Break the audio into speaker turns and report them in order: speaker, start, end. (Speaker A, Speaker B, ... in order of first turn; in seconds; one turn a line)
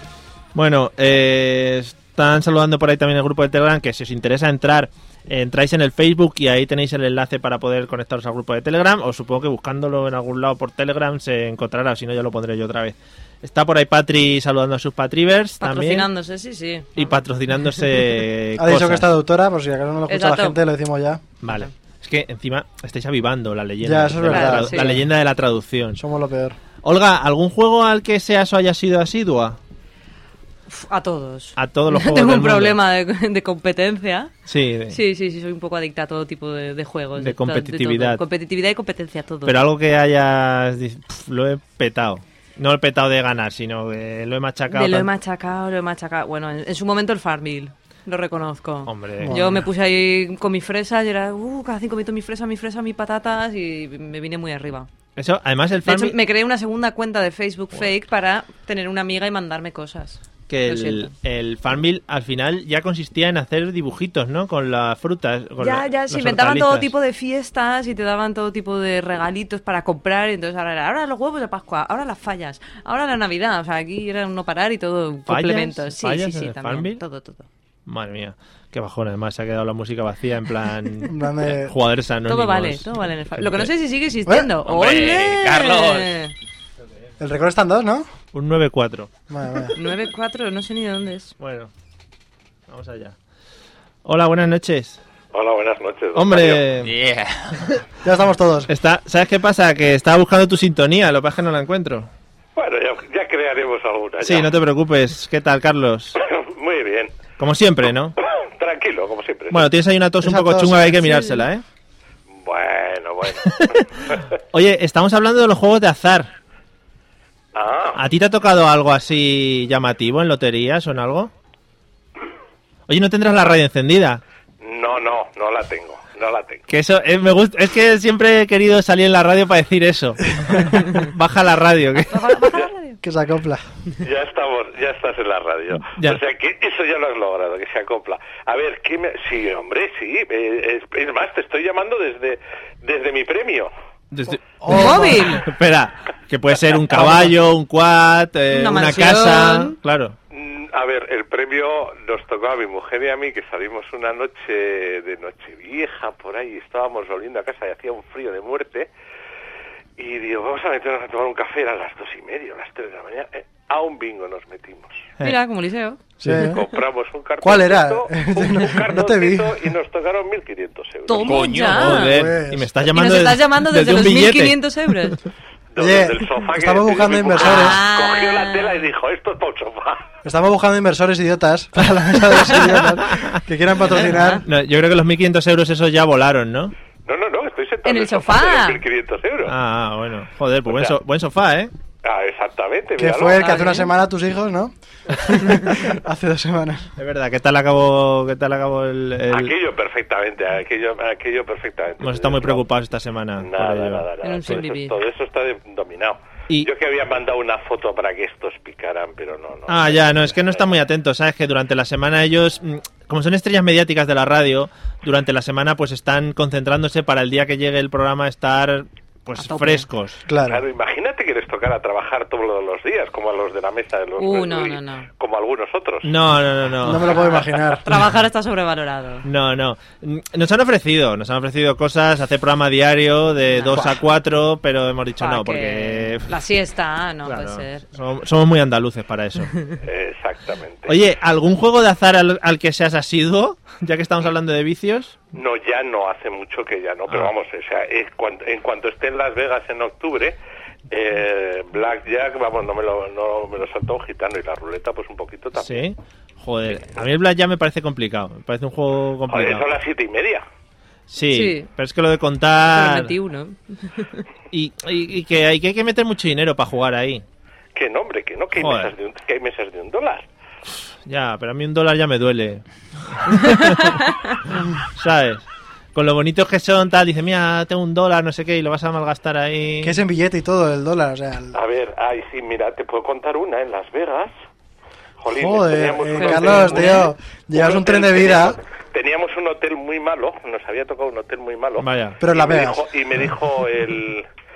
Speaker A: 0.5-16.1
Speaker B: 15.6-17.2
Speaker A: 17.0-19.1
Speaker C: 18.6-21.3
Speaker B: 20.1-20.6
Speaker A: 21.4-26.0
Speaker C: 23.8-25.1
Speaker B: 24.3-24.9
Speaker C: 26.0-26.6
Speaker A: 26.8-29.6
Speaker B: 30.7-34.3
Speaker A: 31.6-32.8
Speaker A: 34.5-35.0
Speaker B: 34.9-39.5
Speaker A: 37.2-38.2
Speaker A: 39.5-45.1
Speaker B: 44.7-54.9
Speaker A: 48.9-49.6
Speaker C: 49.2-49.6
Speaker A: 55.2-56.2
Speaker B: 55.8-61.1
Speaker A: 60.5-66.9
Speaker B: 65.6-77.5
Speaker A: 75.3-77.0
Speaker A: 77.9-83.7
Speaker C: 81.1-81.7
Speaker B: 82.3-86.3
Speaker D: 84.7-86.2
Speaker C: 87.2-88.1
Speaker A: 88.3-89.1
Speaker C: 89.3-89.7
Speaker B: 89.8-91.3
Speaker A: 91.4-91.7
Speaker A: 92.7-93.2
Speaker A: 94.0-95.0
Speaker E: 95.3-96.7
Speaker A: 96.1-96.9
Speaker D: 96.8-97.6
Speaker C: 98.0-98.7
Speaker A: 98.7-102.1
Speaker E: 102.6-104.5
Speaker A: 104.2-106.2
Speaker E: 106.2-107.2
Speaker A: 107.4-108.2
Speaker E: 108.4-109.7
Speaker A: 109.5-111.6
Speaker C: 110.2-111.1
Speaker E: 112.4-114.2
Speaker A: 113.4-116.3
Speaker E: 117.5-118.0
Speaker A: 117.9-121.3
Speaker A: 122.9-124.2
Speaker E: 124.6-126.6
Speaker A: 126.7-132.4
Speaker B: 132.1-133.0
Speaker C: 133.0-133.6
Speaker E: 134.0-143.7
Speaker A: 135.7-136.2
Speaker A: 144.1-150.2
Speaker C: 144.6-145.4
Speaker B: 144.7-145.4
Speaker C: 147.0-147.3
Speaker B: 148.5-149.8
Speaker E: 150.3-158.9
Speaker E: 160.0-165.1
Speaker B: 165.2-166.0
Speaker C: 166.2-166.6
Speaker E: 166.4-171.4
Speaker C: 167.4-169.7
Speaker B: 171.1-172.2
Speaker D: 171.2-172.0
Speaker A: 171.5-174.6
Speaker C: 172.1-172.7
Speaker B: 172.9-175.2
Speaker E: 175.8-180.1
Speaker C: 175.8-177.8
Speaker B: 177.4-178.9
Speaker C: 180.2-184.4
Speaker A: 182.2-183.4
Speaker B: 183.9-184.4
Speaker A: 184.4-186.7
Speaker E: 187.1-189.5
Speaker B: 187.8-188.8
Speaker A: 189.4-191.7
Speaker E: 190.7-191.0
Speaker E: 192.0-193.7
Speaker C: 193.0-196.9
Speaker B: 193.4-193.9
Speaker A: 197.0-199.6
Speaker E: 199.3-202.7
Speaker A: 202.0-204.6
Speaker E: 203.4-210.7
Speaker B: 204.2-204.9
Speaker A: 209.7-220.3
Speaker B: 219.4-219.8
Speaker C: 220.3-220.7
Speaker E: 220.4-226.1
Speaker B: 224.2-225.1
Speaker A: 226.0-227.3
Speaker C: 226.8-227.8
Speaker B: 227.1-229.3
Speaker A: 229.2-236.3
Speaker B: 233.5-233.8
Speaker B: 235.2-237.8
Speaker A: 237.2-239.6
Speaker E: 239.8-240.9
Speaker A: 240.9-245.2
Speaker E: 245.3-250.4
Speaker E: 250.9-255.8
Speaker A: 255.6-259.7
Speaker E: 259.3-260.4
Speaker A: 261.1-263.1
Speaker B: 261.3-261.7
Speaker B: 262.7-264.2
Speaker A: 264.5-267.2
Speaker E: 267.8-270.3
Speaker A: 268.6-268.9
Speaker A: 270.9-274.4
Speaker B: 273.5-274.1
Speaker A: 274.9-275.4
Speaker A: 275.9-280.0
Speaker C: 279.8-281.6
Speaker E: 281.5-284.3
Speaker E: 285.2-294.3
Speaker C: 285.3-288.6
Speaker B: 286.1-287.1
Speaker A: 291.8-292.2
Speaker C: 292.2-292.9